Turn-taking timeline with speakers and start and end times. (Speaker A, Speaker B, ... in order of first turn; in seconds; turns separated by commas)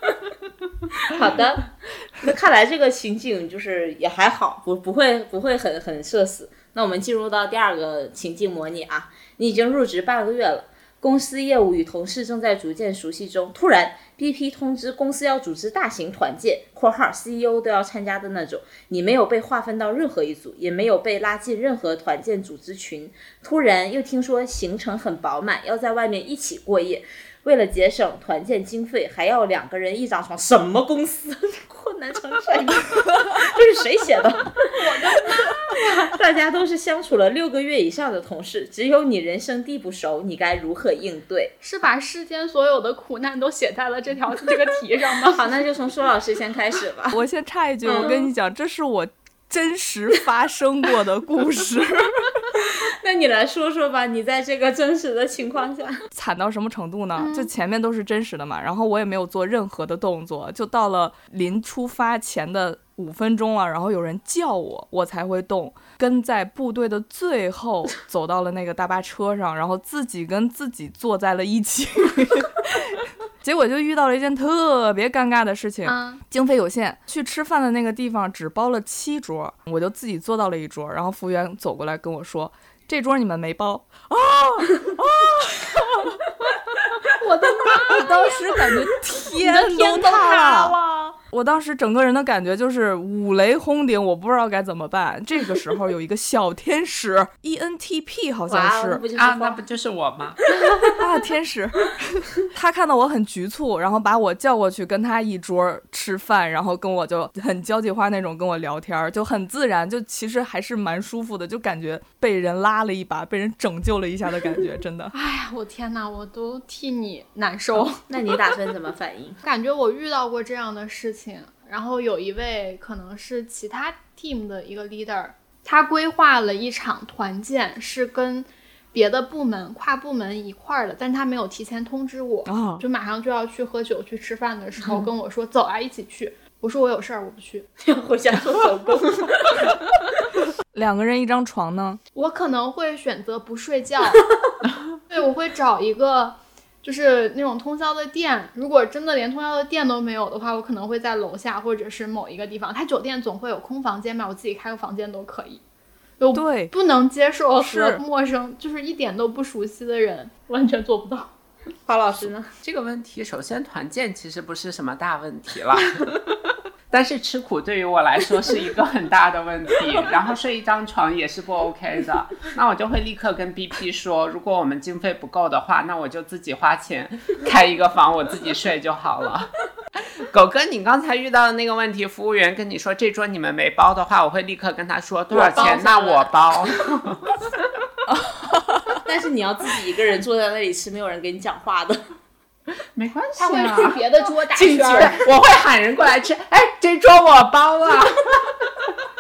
Speaker A: 1.0-34.8, Speaker B: 34.8-36.0, Speaker A: 36.0-41.5, Speaker B: 41.6-45.5, Speaker A: 45.3-47.2, Speaker C: 47.1-52.5, Speaker A: 47.9-48.3, Speaker A: 52.6-56.0, Speaker C: 56.1-86.1, Speaker B: 57.2-57.5, Speaker B: 75.9-76.2, Speaker B: 87.2-88.3, Speaker C: 87.7-90.8, Speaker A: 89.4-91.2, Speaker C: 91.3-99.0, Speaker A: 98.5-99.6, Speaker D: 99.2-100.4, Speaker C: 101.0-115.1, Speaker B: 115.1-118.0, Speaker A: 118.1-119.4, Speaker B: 119.4-137.7, Speaker C: 132.5-132.8, Speaker A: 137.8-139.8, Speaker C: 140.7-142.0, Speaker B: 142.1-144.2, Speaker B: 145.1-155.6, Speaker B: 156.2-161.3, Speaker C: 156.3-156.7, Speaker C: 157.6-158.0, Speaker A: 161.9-162.5, Speaker D: 162.6-166.1, Speaker D: 166.9-187.3, Speaker A: 185.3-186.3, Speaker A: 189.1-192.0, Speaker D: 192.9-194.0, Speaker B: 193.4-195.2, Speaker D: 194.5-198.6